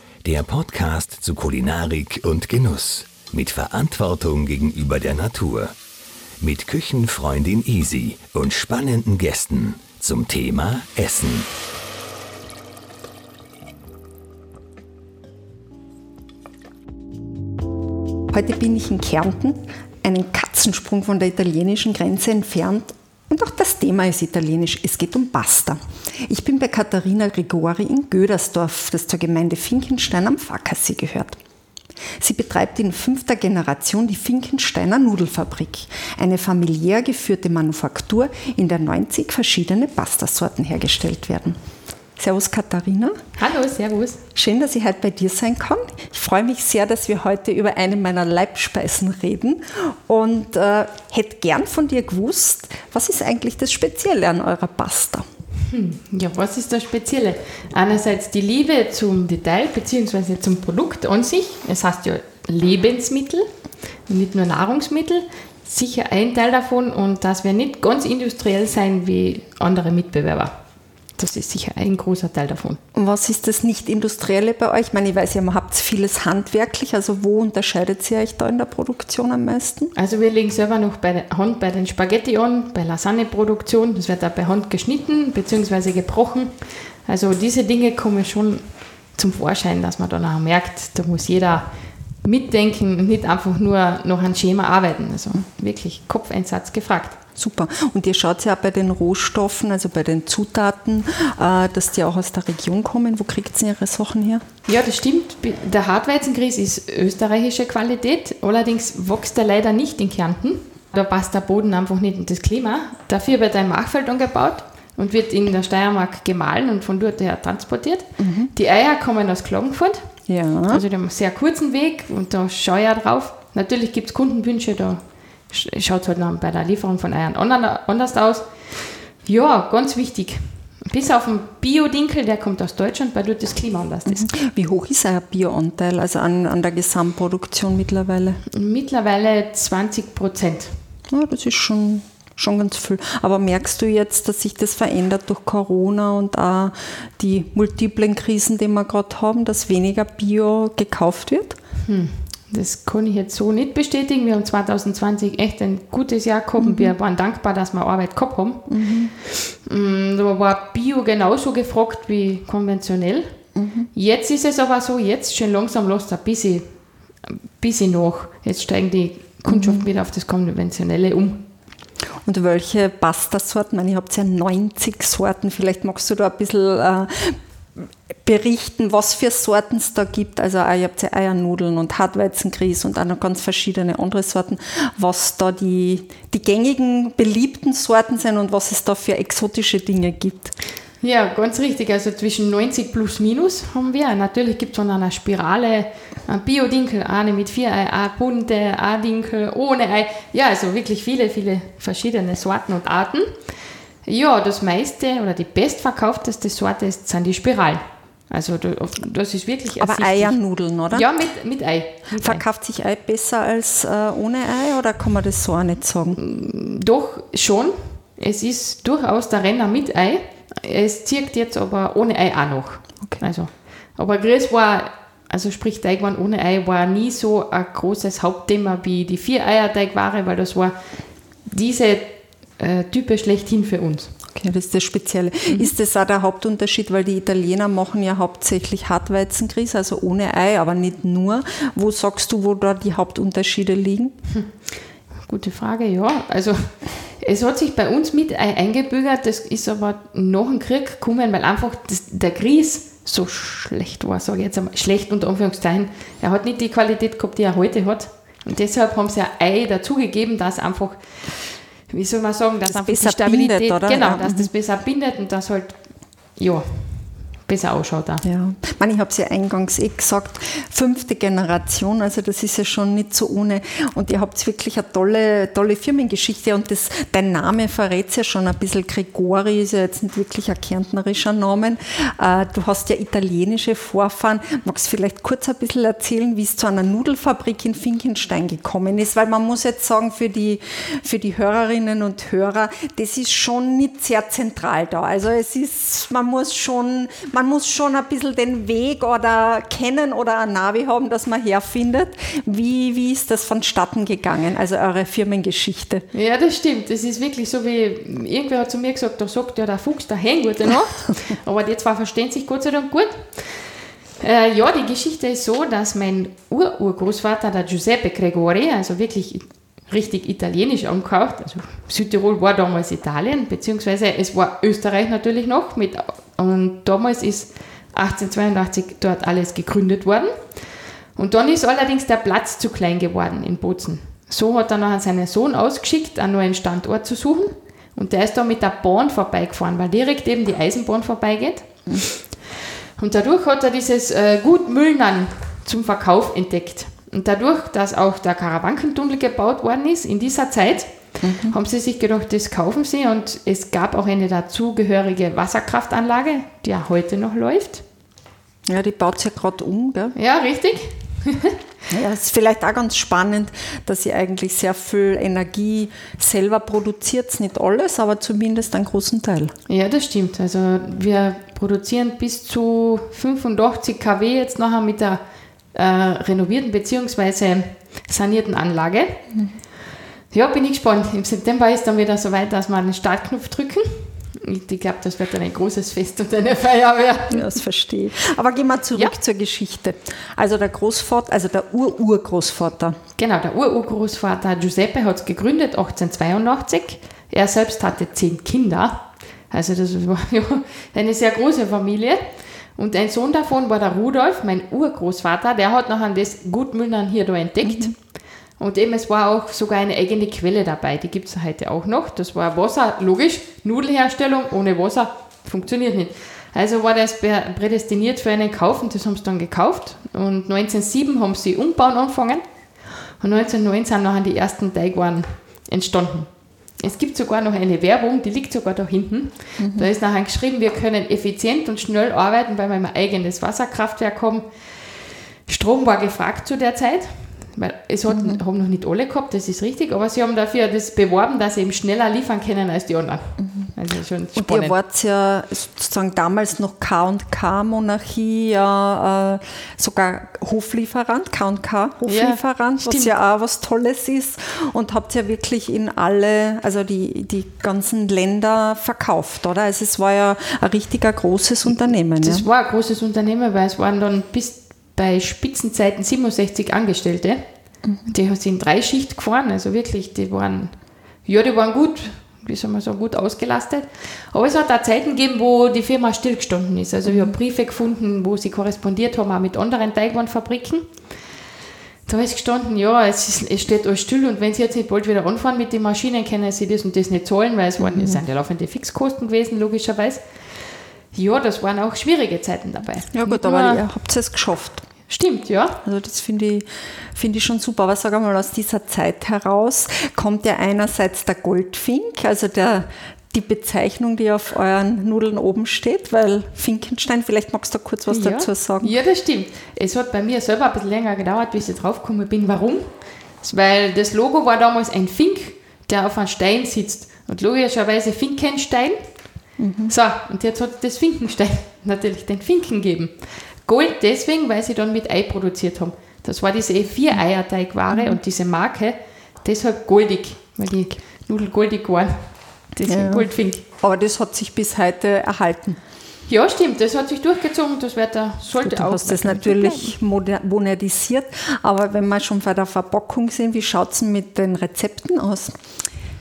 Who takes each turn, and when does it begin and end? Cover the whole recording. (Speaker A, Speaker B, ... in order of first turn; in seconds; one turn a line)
Speaker A: 0.2-5.7
Speaker A: 6.4-11.5
Speaker B: 18.3-31.4
Speaker B: 32.2-41.6
Speaker B: 42.2-43.2
Speaker C: 43.4-44.2
Speaker B: 44.4-55.3
Speaker C: 55.7-63.5
Speaker C: 64.1-70.5
Speaker C: 71.2-72.8
Speaker B: 72.9-79.9
Speaker C: 80.0-91.7
Speaker C: 92.2-97.2
Speaker B: 97.4-104.4
Speaker C: 104.7-120.1
Speaker B: 118.2-118.5
Speaker B: 120.3-120.8
Speaker C: 120.7-134.3
Speaker B: 134.1-138.4
Speaker C: 138.5-140.8
Speaker B: 141.1-151.6
Speaker C: 151.9-158.7
Speaker B: 156.6-157.0
Speaker B: 158.7-159.1
Speaker C: 159.2-163.4
Speaker B: 163.6-163.9
Speaker C: 163.9-166.7
Speaker C: 167.3-171.5
Speaker B: 169.5-169.8
Speaker B: 172.2-190.5
Speaker C: 191.0-203.5
Speaker C: 204.0-210.4
Speaker B: 209.8-211.1
Speaker C: 210.9-212.4
Speaker B: 212.1-216.2
Speaker C: 216.2-230.8
Speaker C: 231.4-234.1
Speaker B: 234.3-244.2
Speaker C: 245.3-268.2
Speaker B: 262.7-264.5
Speaker B: 268.2-306.1
Speaker C: 306.1-342.4
Speaker C: 343.0-357.8
Speaker B: 351.2-351.6
Speaker B: 358.7-360.2
Speaker C: 360.2-361.6
Speaker B: 361.9-369.5
Speaker C: 369.7-379.2
Speaker C: 380.3-387.4
Speaker B: 387.3-393.0
Speaker C: 393.2-408.1
Speaker B: 407.6-407.9
Speaker C: 408.6-422.4
Speaker C: 423.1-434.9
Speaker B: 429.6-429.9
Speaker C: 435.5-444.8
Speaker B: 438.1-438.4
Speaker B: 443.4-443.7
Speaker B: 444.4-462.5
Speaker C: 452.1-453.1
Speaker C: 462.2-467.4
Speaker B: 467.9-468.1
Speaker C: 468.1-481.0
Speaker B: 477.1-477.3
Speaker C: 482.1-490.4
Speaker B: 487.8-488.2
Speaker C: 491.1-493.8
Speaker B: 493.1-494.9
Speaker C: 495.1-495.8
Speaker B: 495.8-509.0
Speaker C: 508.1-533.6
Speaker B: 519.6-519.9
Speaker B: 527.9-528.2
Speaker B: 532.9-535.8
Speaker C: 536.3-539.9
Speaker B: 538.5-545.6